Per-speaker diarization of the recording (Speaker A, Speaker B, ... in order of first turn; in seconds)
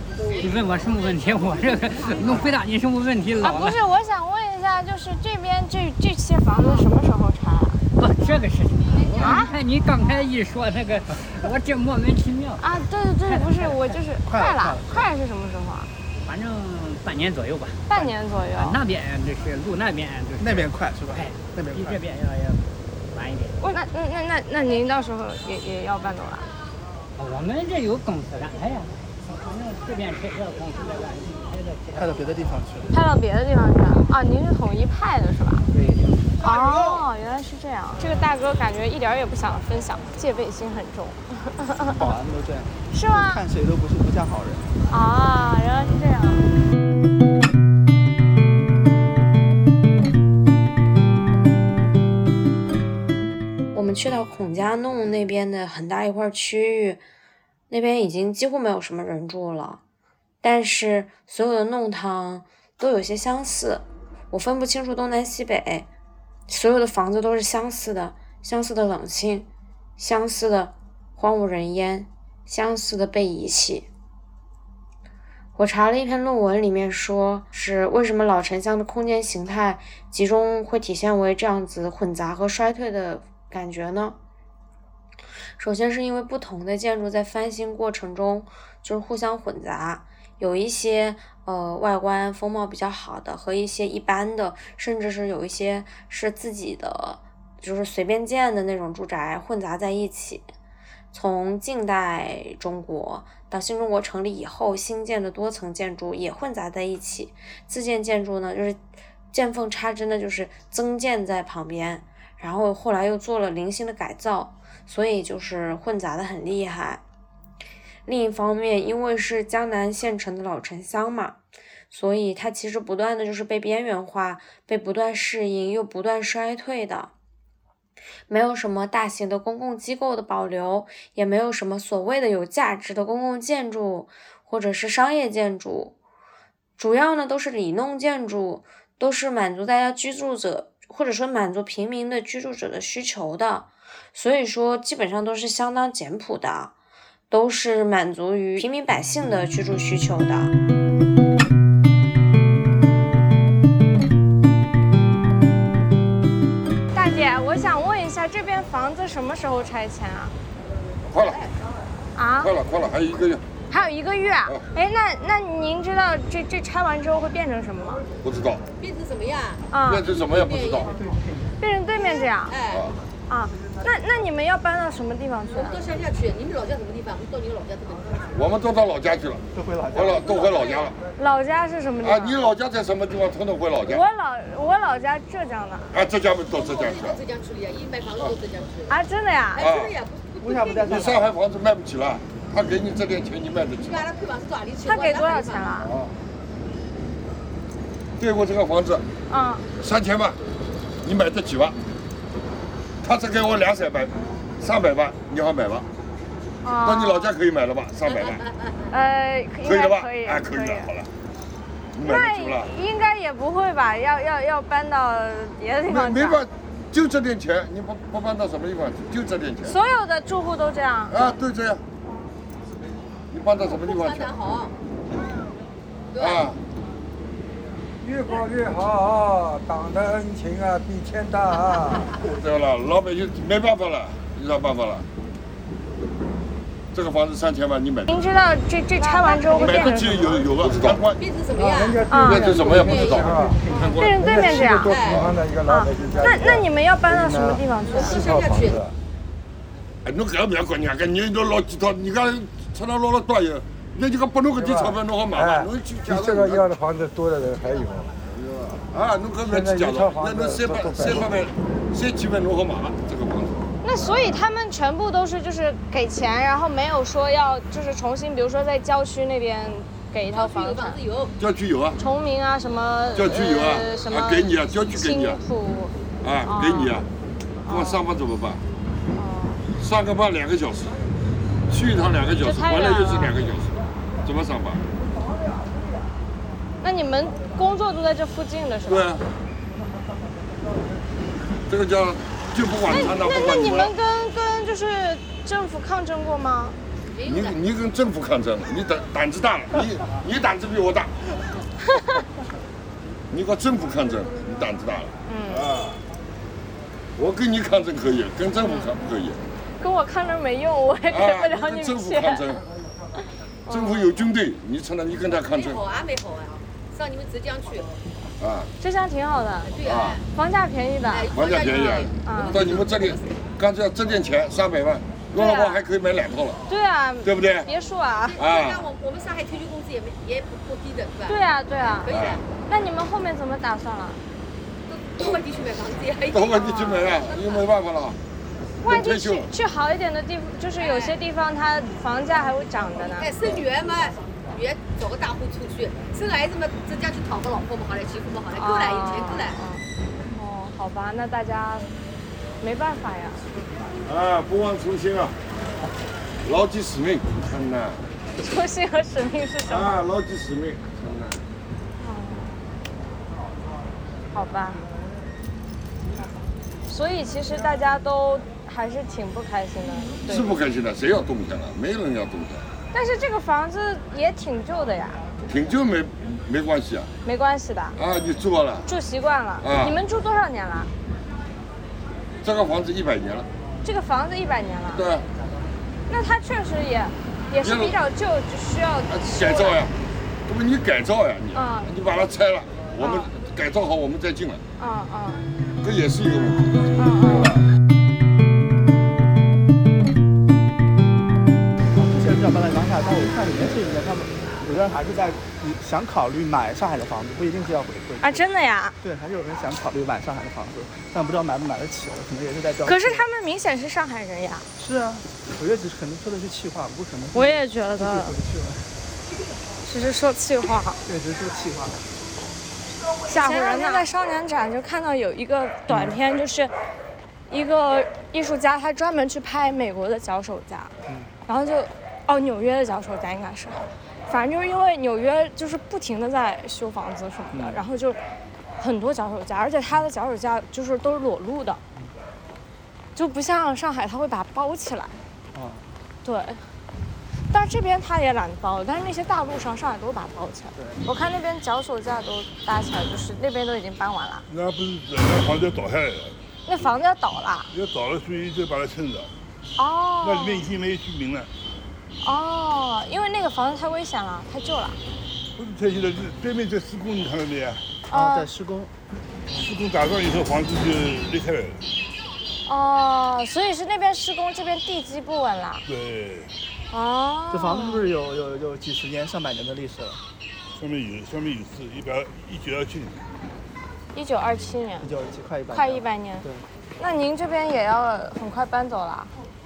Speaker A: 0.3-3.8, 8.0-12.6, 13.2-14.0, 16.2-17.8, 18.6-23.6, 27.2-32.2
Speaker B: 3.4-7.8, 9.2-9.5, 12.6-15.9, 17.9-18.8, 23.6-26.5, 32.9-35.6, 36.4-42.0, 42.9-43.4, 44.9-46.5, 156.9-160.3, 162.2-162.5, 163.7-168.0, 169.7-170.0, 171.6-172.5, 173.3-175.8, 181.2-182.4, 183.9-185.9, 188.9-189.6, 194.8-195.9, 199.3-199.7, 206.6-207.3, 208.9-210.9, 212.0-216.4, 219.6-221.2, 238.1-240.4, 242.1-242.5, 243.7-244.9, 245.7-248.2, 263.8-271.0, 272.0-275.9, 276.4-277.0, 277.6-278.0, 279.1-279.6, 282.4-283.3, 286.8-289.1, 292.9-296.8, 305.2-305.7, 308.6-308.9, 309.8-312.4, 313.6-314.1, 318.8-319.7, 320.3-322.6, 325.3-325.8, 326.7-328.4, 331.3-332.1, 332.6-334.2, 338.8-343.3, 348.5-351.9, 352.6-353.4, 358.4-360.0, 362.0-362.6, 364.3-364.8, 366.9-370.6, 372.9-375.2, 377.2-378.0, 378.9-380.9, 383.8-385.1, 386.1-389.8, 391.5-391.9, 393.0-393.3, 394.8-395.5, 396.9-397.5, 408.2-408.9, 412.8-414.7, 417.3-418.3, 419.8-421.0, 423.3-426.7, 427.5-430.9, 431.4-438.2, 438.8-441.8, 443.1-445.1, 446.2-446.7, 447.5-454.4, 456.6-457.7, 459.8-460.7, 462.2-465.0, 468.1-468.5, 472.6-475.8, 476.9-478.1, 484.1-485.1, 485.7-486.5, 487.0-489.3
Speaker C: 14.2-15.1, 20.4-22.0, 31.9-32.9, 35.7-36.0, 36.6-36.9, 41.9-44.7, 170.9-171.5, 179.5-180.3, 190.4-191.3, 242.1-242.7, 243.4-243.9, 401.9-408.4, 409.0-413.2, 414.8-418.9, 421.1-422.1, 425.9-426.2, 431.1-431.3, 437.5-437.8, 445.5-445.9, 450.8-451.1, 468.1-468.9, 477.5-480.2, 485.0-486.6
Speaker D: 53.7-57.0, 57.7-59.8, 60.4-65.9, 66.5-73.9, 75.5-84.2, 85.6-100.5, 101.1-108.8, 109.3-117.0, 118.0-121.4, 121.9-127.1, 128.3-135.9, 136.8-146.7, 147.3-150.5
Speaker E: 161.1-161.5, 162.4-163.4, 168.2-168.7, 169.8-170.9, 172.7-172.9, 178.3-180.9, 182.0-184.0, 185.9-187.2, 189.6-189.9, 190.8-194.1, 198.2-199.1, 199.8-200.4, 201.0-201.8, 203.0-205.9, 206.8-208.4, 209.6-211.1, 211.9-212.7, 215.9-219.8, 221.1-221.8, 223.3-224.3, 226.2-226.6, 232.2-235.1, 236.9-238.1, 239.6-241.2, 242.2-244.2, 245.0-245.3, 250.0-256.7, 258.2-264.3, 271.4-272.0, 273.1-275.4, 276.2-277.1, 277.6-278.6, 279.8-281.0, 281.7-284.8, 288.9-289.2, 291.7-293.9, 297.2-301.2, 303.3-306.0, 307.1-309.4, 311.1-312.6, 313.7-315.8, 318.4-318.7, 319.8-320.2, 321.3-326.6, 327.2-327.7, 328.4-328.9, 332.1-332.4, 336.3-338.2, 338.8-339.5, 354.0-355.4, 356.4-358.1, 359.6-361.4, 370.2-372.6, 375.4-377.1, 377.9-378.9, 379.6-380.0, 382.4-383.5, 384.9-385.3, 387.6-387.9, 389.1-394.6, 395.8-397.6
Speaker F: 168.8-171.0, 172.0-172.9, 175.5-178.3, 180.1-180.9, 186.5-189.0, 189.6-191.0, 193.8-195.8, 208.0-208.9, 223.6-224.7, 226.1-226.5, 231.5-232.2, 238.9-240.3, 241.1-245.3, 247.9-248.8, 270.3-271.3, 297.1-297.6, 315.5-317.9, 319.6-320.2, 321.1-323.3, 328.3-331.4, 332.0-332.4, 334.9-337.6, 340.8-341.2, 343.1-349.6, 423.7-423.9
Speaker G: 228.0-232.1, 241.5-248.9, 254.5-258.1, 259.4-261.3
Speaker H: 454.5-456.4, 457.7-459.3, 460.2-461.5, 465.5-467.9, 469.5-471.8, 475.9-476.5, 480.7-483.3